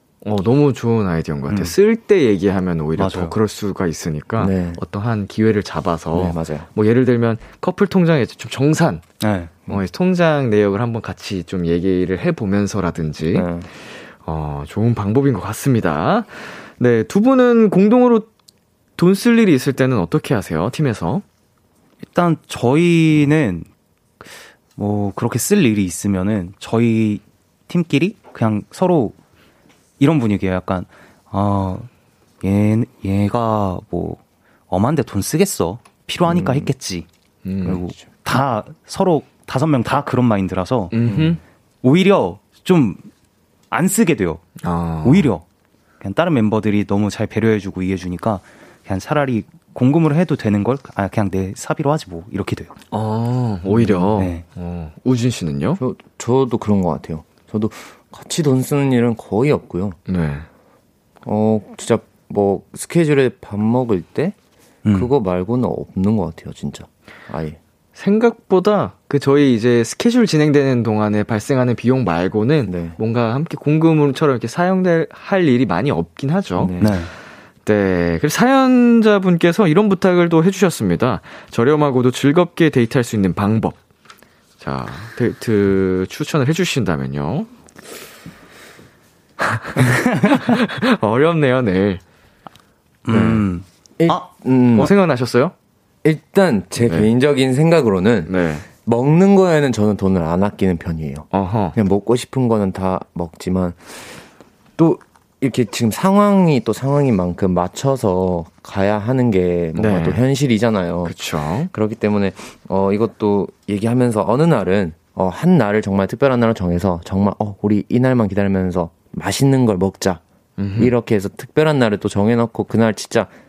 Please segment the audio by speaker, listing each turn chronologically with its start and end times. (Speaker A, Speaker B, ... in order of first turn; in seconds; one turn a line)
Speaker A: 0.2-9.0
Speaker B: 3.0-3.4
Speaker C: 4.4-4.8
Speaker C: 6.1-6.7
Speaker B: 9.2-9.5
Speaker A: 9.7-13.5
Speaker C: 13.3-13.7
Speaker A: 14.2-18.3
Speaker A: 19.0-21.2
Speaker B: 22.1-23.7
Speaker B: 24.8-29.1
Speaker B: 30.0-31.9
Speaker B: 32.4-37.1
Speaker A: 37.4-37.8
Speaker B: 37.6-40.9
Speaker A: 40.9-41.4
Speaker C: 41.1-41.4
Speaker B: 41.8-43.0
Speaker B: 43.7-44.4
Speaker A: 44.6-45.3
Speaker B: 45.0-45.4
Speaker B: 46.0-52.7
Speaker A: 52.9-55.8
Speaker C: 53.8-54.1
Speaker B: 54.2-54.4
Speaker C: 55.8-60.0
Speaker A: 60.1-60.5
Speaker C: 61.2-64.3
Speaker B: 64.8-65.1
Speaker C: 64.9-67.6
Speaker A: 68.0-76.8
Speaker C: 72.7-73.0
Speaker C: 76.6-77.0
Speaker B: 76.8-77.1
Speaker A: 77.6-83.8
Speaker A: 84.6-87.5
Speaker A: 89.4-92.0
Speaker B: 90.0-90.5
Speaker B: 93.0-94.3
Speaker A: 93.1-93.4
Speaker C: 94.0-94.9
Speaker A: 94.8-95.5
Speaker C: 96.0-98.3
Speaker A: 96.8-97.1
Speaker A: 98.3-98.7
Speaker C: 98.8-104.2
Speaker A: 101.3-101.7
Speaker C: 104.8-120.2
Speaker A: 109.8-110.2
Speaker A: 111.0-111.7
Speaker A: 120.6-120.9
Speaker C: 120.8-123.3